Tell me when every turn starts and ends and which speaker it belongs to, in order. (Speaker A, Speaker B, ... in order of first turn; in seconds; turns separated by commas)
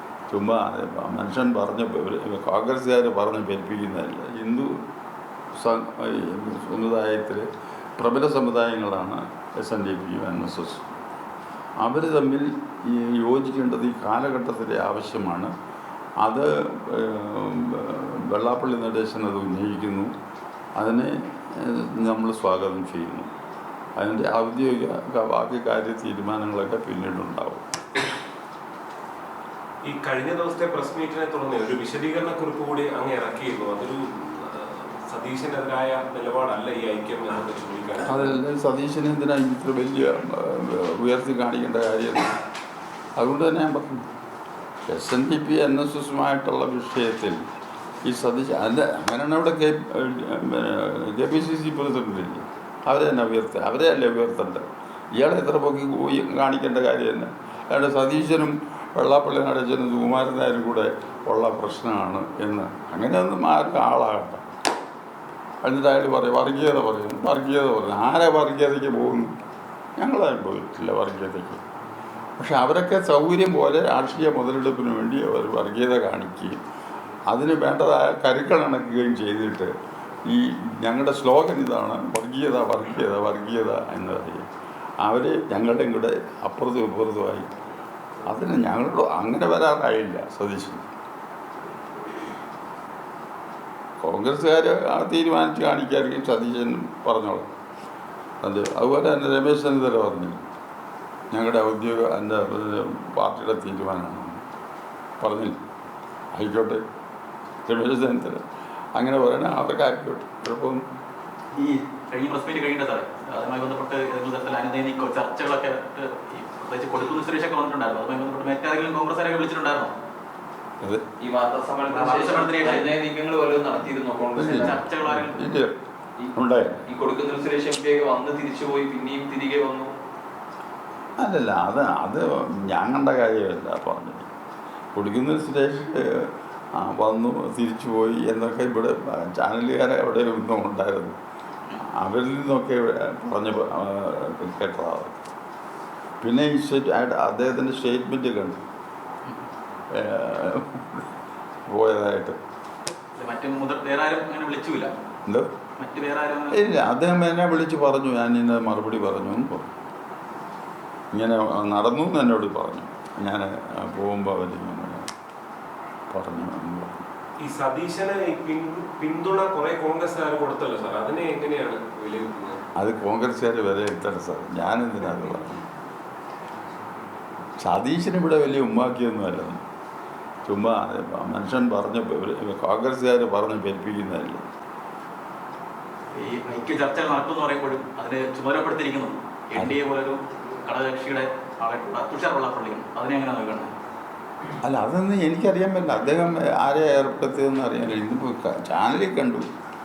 Speaker A: 0.3-4.7, Speaker A: 5.6-7.5, Speaker A: 8.0-10.9, Speaker A: 11.8-15.5, Speaker A: 16.2-20.1, Speaker A: 20.8-23.3, Speaker A: 24.0-27.7, Speaker B: 29.9-38.2, Speaker A: 38.1-42.3, Speaker A: 43.2-44.0, Speaker A: 44.9-47.4, Speaker A: 48.0-64.5, Speaker A: 65.6-69.3, Speaker A: 70.0-71.6, Speaker A: 72.4-76.6, Speaker A: 77.3-79.7, Speaker A: 80.3-84.5, Speaker A: 85.0-87.5, Speaker A: 88.3-90.9, Speaker A: 94.0-97.5, Speaker A: 98.4-100.4, Speaker A: 101.3-104.4, Speaker A: 105.2-105.6, Speaker A: 106.3-106.8, Speaker A: 107.7-108.4, Speaker A: 109.0-110.8, Speaker C: 111.5-119.9, Speaker D: 121.2-124.8, Speaker C: 121.9-122.9, Speaker A: 124.4-125.7, Speaker C: 124.5-125.4, Speaker A: 126.3-126.8, Speaker D: 126.9-129.9, Speaker A: 131.2-134.3, Speaker A: 134.9-141.2, Speaker A: 141.8-145.2, Speaker A: 146.2-148.6, Speaker A: 149.9-151.0, Speaker A: 151.7-152.4, Speaker C: 153.2-154.9, Speaker A: 155.3-155.5, Speaker C: 155.8-156.6, Speaker A: 156.5-159.7, Speaker A: 161.1-165.1, Speaker A: 166.1-167.1, Speaker B: 167.4-172.6, Speaker A: 172.8-175.6, Speaker A: 177.6-179.6, Speaker A: 180.5-184.4, Speaker C: 186.2-193.7, Speaker A: 194.6-199.5